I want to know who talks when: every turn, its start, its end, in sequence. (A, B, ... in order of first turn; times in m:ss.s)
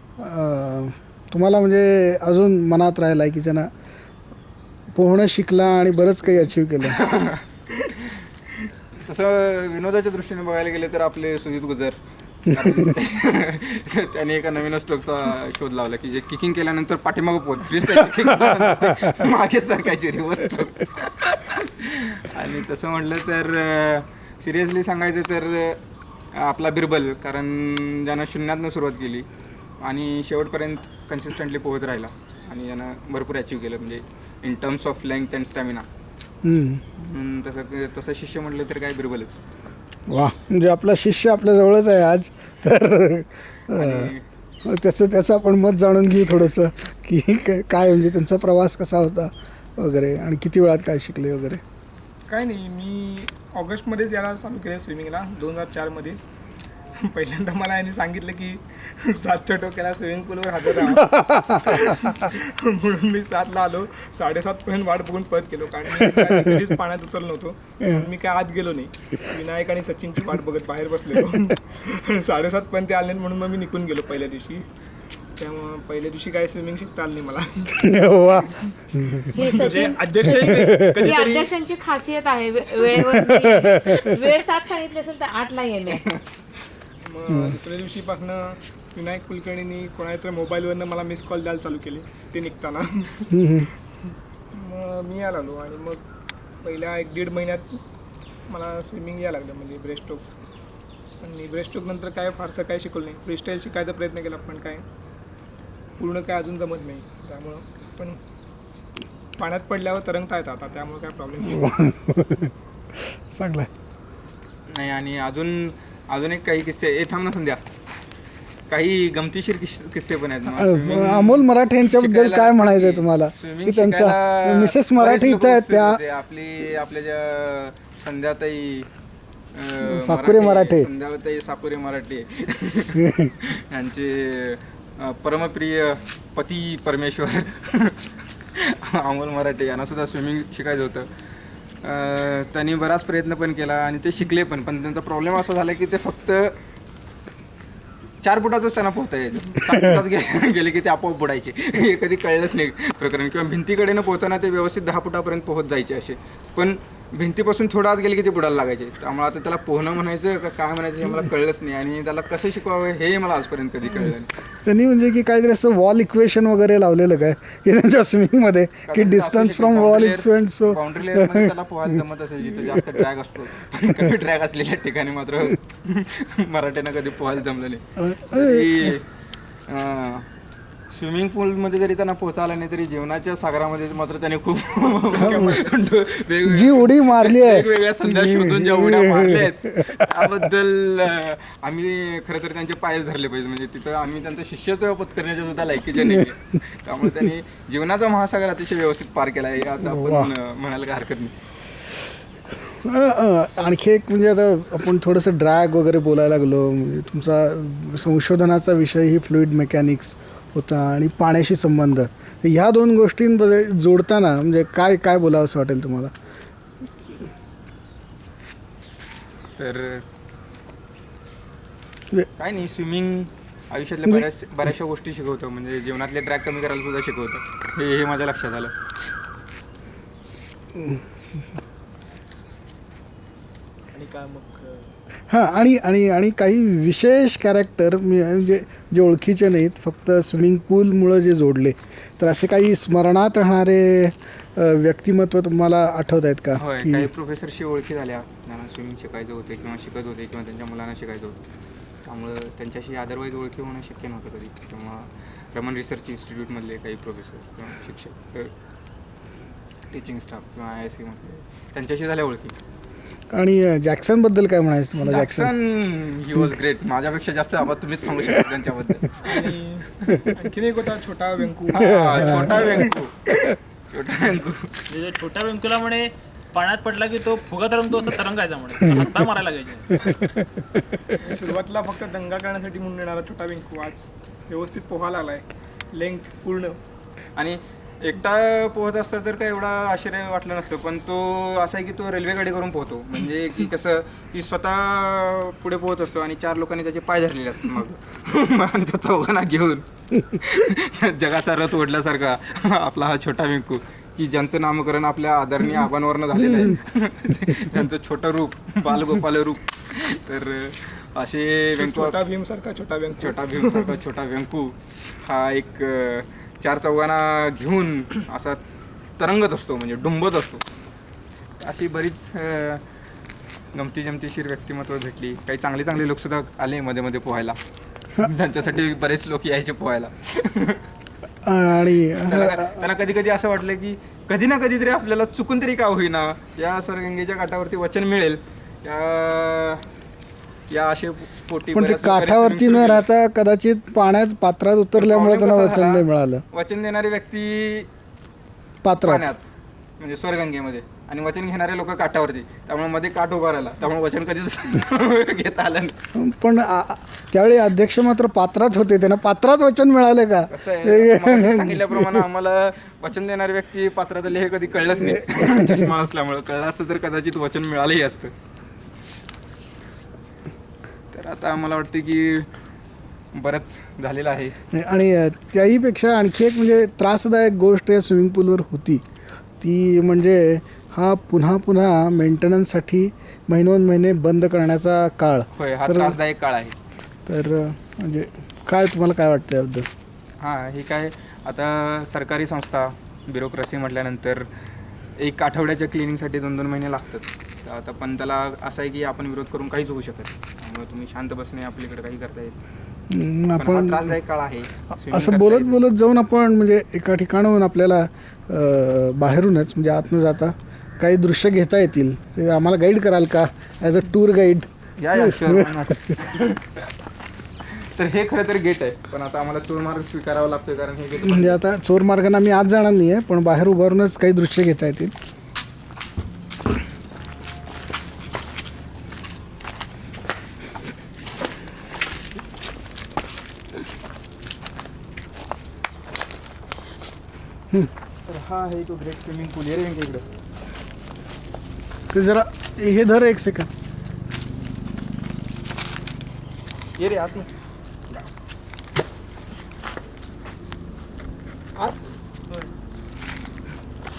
0:00.2-0:03.7 A
0:04.9-0:07.0 A
0:06.8-0:07.4 B
0:09.0-0:25.8 B
0:12.5-0:12.9 A
0:26.3-0:29.3 B
0:29.8-0:35.9 B
0:36.4-0:36.8 A
0:37.0-0:39.4 B
0:40.1-0:44.1 A
0:43.7-0:44.2 B
0:44.6-0:51.6 A
0:52.3-0:56.2 C
0:57.0-1:01.1 C
1:00.9-1:01.9 A
1:01.6-1:14.6 C
1:07.8-1:08.1 A
1:15.4-1:17.8 C
1:17.8-1:19.6 A
1:19.3-1:26.1 D
1:19.5-1:20.2 C
1:19.8-1:21.5 E
1:20.2-1:21.1 A
1:23.1-1:24.0 A
1:27.0-1:33.2 C
1:33.3-1:33.7 A
1:34.5-1:36.0 C
1:36.6-1:37.8 C
1:38.5-1:40.2 C
1:41.2-1:44.8 C
1:46.0-1:48.2 C
1:49.4-1:51.7 C
1:51.4-1:52.5 A
1:53.3-1:53.7 A
1:54.7-1:57.6 B
1:58.7-2:08.9 B
2:00.4-2:06.0 A
2:09.5-2:21.1 B
2:09.8-2:10.9 A
2:13.0-2:13.3 A
2:21.8-2:26.5 B
2:28.2-2:44.3 B
2:44.6-2:51.5 A
2:48.9-2:59.0 B
2:52.6-2:53.0 A
2:58.0-2:58.9 A
2:59.7-3:00.3 B
3:00.9-3:21.3 B
3:05.1-3:05.7 A
3:06.4-3:10.5 A
3:16.0-3:16.3 A
3:19.8-3:20.3 A
3:22.6-3:36.1 A
3:39.6-3:40.0 B
3:42.4-3:48.7 B
3:50.8-3:51.0 A
3:53.9-3:54.9 E
3:55.3-4:07.1 A
4:06.6-4:11.4 B
4:12.0-4:18.5 B
4:19.9-4:22.5 B
4:23.3-4:25.5 A
4:25.0-4:29.5 B
4:29.2-4:32.8 C
4:31.7-4:33.3 B
4:31.8-4:32.9 A
4:33.9-4:34.8 B
4:34.9-4:40.1 E
4:40.0-4:40.8 A
4:41.2-4:46.8 C
4:47.4-5:12.2 B
5:11.8-5:13.9 C
5:13.2-5:18.6 B
5:19.2-5:20.6 B
5:21.6-5:22.8 B
5:23.7-5:27.6 B
5:28.1-5:30.8 B
5:31.4-5:32.8 A
5:32.2-5:39.8 B
5:40.7-5:43.0 B
5:41.7-5:46.4 A
5:45.0-5:47.9 B
5:48.8-5:49.3 A
5:49.0-5:56.0 B
5:56.2-6:02.3 A
6:00.5-6:08.3 B
6:11.1-6:12.5 B
6:13.3-6:14.5 B
6:14.7-6:19.0 A
6:19.6-6:26.2 A
6:25.5-6:26.8 B
6:27.3-6:29.9 A
6:30.4-6:34.5 B
6:35.2-6:42.6 B
6:43.1-6:44.2 A
6:43.6-6:45.8 B
6:45.0-6:55.9 A
6:55.0-6:56.9 B
6:57.7-7:01.6 B
7:01.2-7:05.1 A
7:18.3-7:20.2 B
7:22.1-7:23.7 A
7:27.0-7:27.5 B